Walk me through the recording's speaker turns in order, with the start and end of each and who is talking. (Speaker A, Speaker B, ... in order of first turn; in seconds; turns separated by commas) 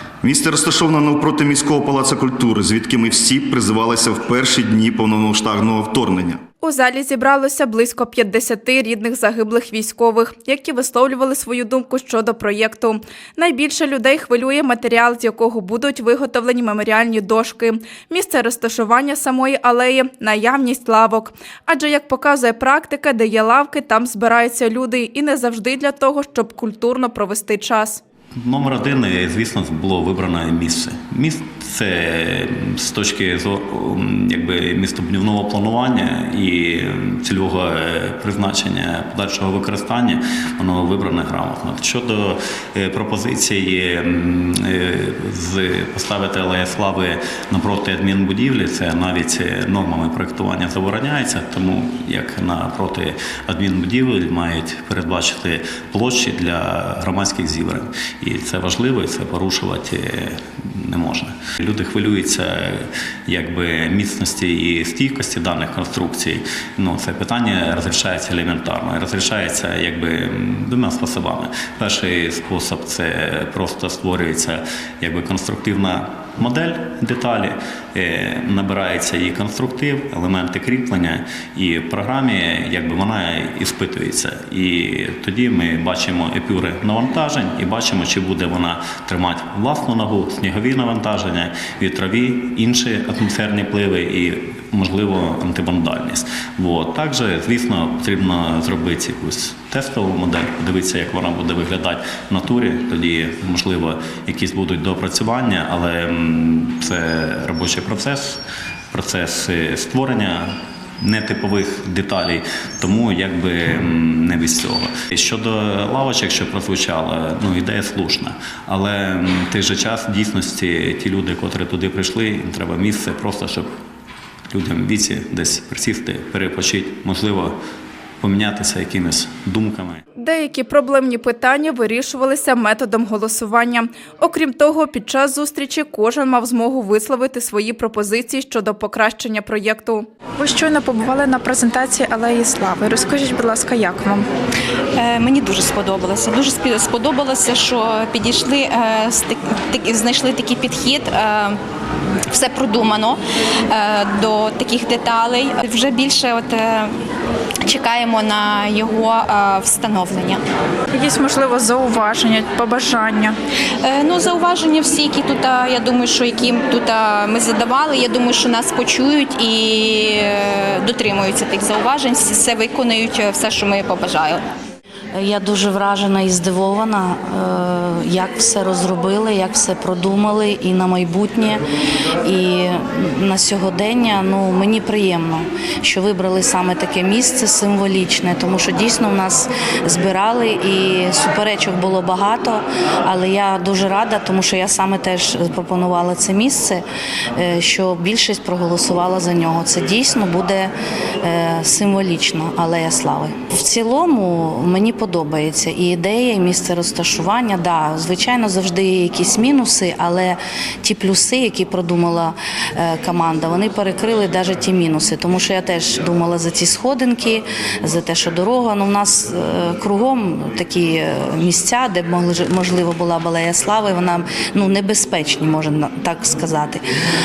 Speaker A: 0.2-6.4, Speaker B: 6.6-28.0, Speaker C: 28.3-108.4, Speaker C: 108.9-123.7, Speaker C: 124.5-127.5, Speaker C: 128.2-130.0, Speaker B: 130.2-140.1, Speaker D: 140.4-144.2, Speaker E: 145.0-151.6, Speaker E: 152.3-153.2, Speaker E: 153.7-156.9, Speaker E: 157.7-160.4, Speaker D: 161.0-163.3, Speaker E: 163.8-174.4, Speaker F: 175.1-181.6, Speaker F: 182.2-196.8, Speaker F: 197.3-200.7, Speaker F: 201.2-226.8